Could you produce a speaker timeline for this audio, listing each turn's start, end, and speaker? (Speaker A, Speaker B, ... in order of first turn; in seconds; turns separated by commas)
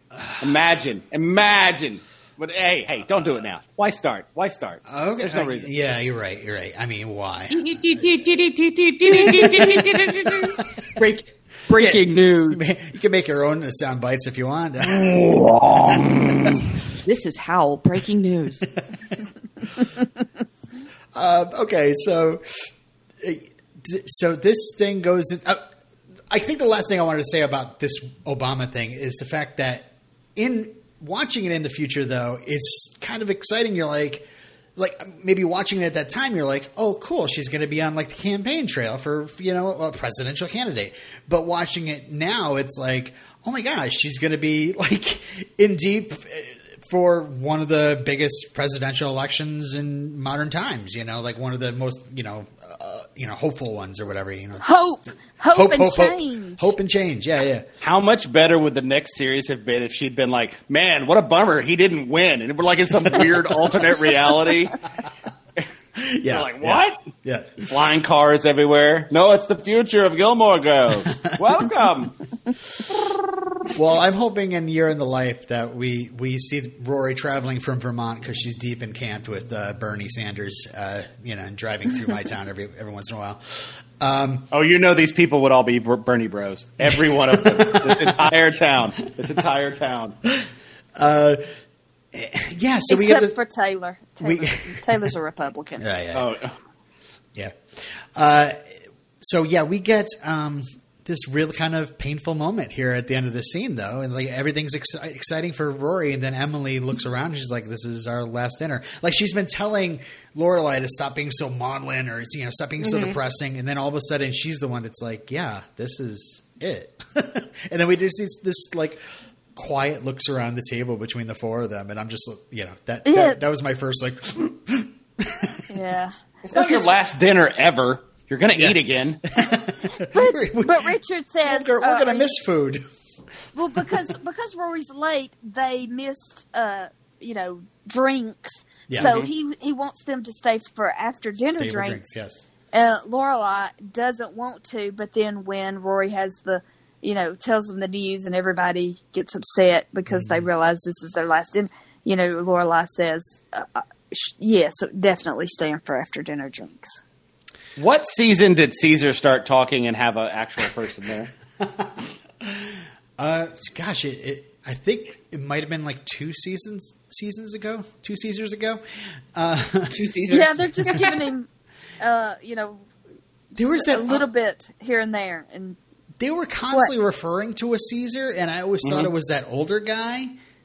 Speaker A: 0.1-0.5, Speaker B: 0.4-5.7, Speaker A: 4.9-8.2, Speaker C: 7.5-12.6, Speaker A: 9.0-10.9, Speaker A: 11.7-15.1, Speaker B: 14.8-16.7, Speaker A: 15.9-16.5, Speaker C: 17.0-18.7, Speaker A: 21.1-22.7, Speaker A: 23.2-25.6, Speaker A: 26.3-57.6, Speaker D: 54.6-56.7, Speaker B: 57.8-64.8, Speaker A: 66.0-67.7, Speaker B: 66.2-67.0, Speaker B: 67.7-72.2, Speaker A: 73.7-84.5, Speaker B: 84.5-90.1, Speaker A: 86.8-88.3, Speaker A: 90.2-91.4, Speaker A: 92.1-93.3, Speaker D: 92.9-95.8, Speaker A: 94.2-95.1, Speaker A: 95.8-96.3, Speaker B: 96.1-96.5, Speaker A: 97.3-119.0, Speaker C: 112.8-113.2, Speaker A: 119.5-125.7, Speaker D: 123.0-123.4, Speaker D: 125.7-126.1, Speaker B: 126.5-129.2, Speaker C: 126.5-126.8, Speaker A: 128.5-132.8, Speaker D: 130.1-132.3, Speaker D: 133.5-142.1, Speaker A: 133.7-134.1, Speaker A: 138.9-139.1, Speaker B: 138.9-139.3, Speaker A: 141.5-142.4, Speaker D: 142.7-157.0, Speaker A: 150.1-150.4, Speaker B: 157.8-161.3, Speaker A: 161.6-168.8, Speaker A: 169.3-169.9, Speaker C: 169.9-171.3, Speaker D: 170.3-171.5, Speaker A: 170.8-171.1, Speaker D: 172.0-172.8, Speaker D: 173.5-175.8, Speaker A: 173.6-174.2, Speaker A: 176.2-180.3, Speaker B: 178.8-179.1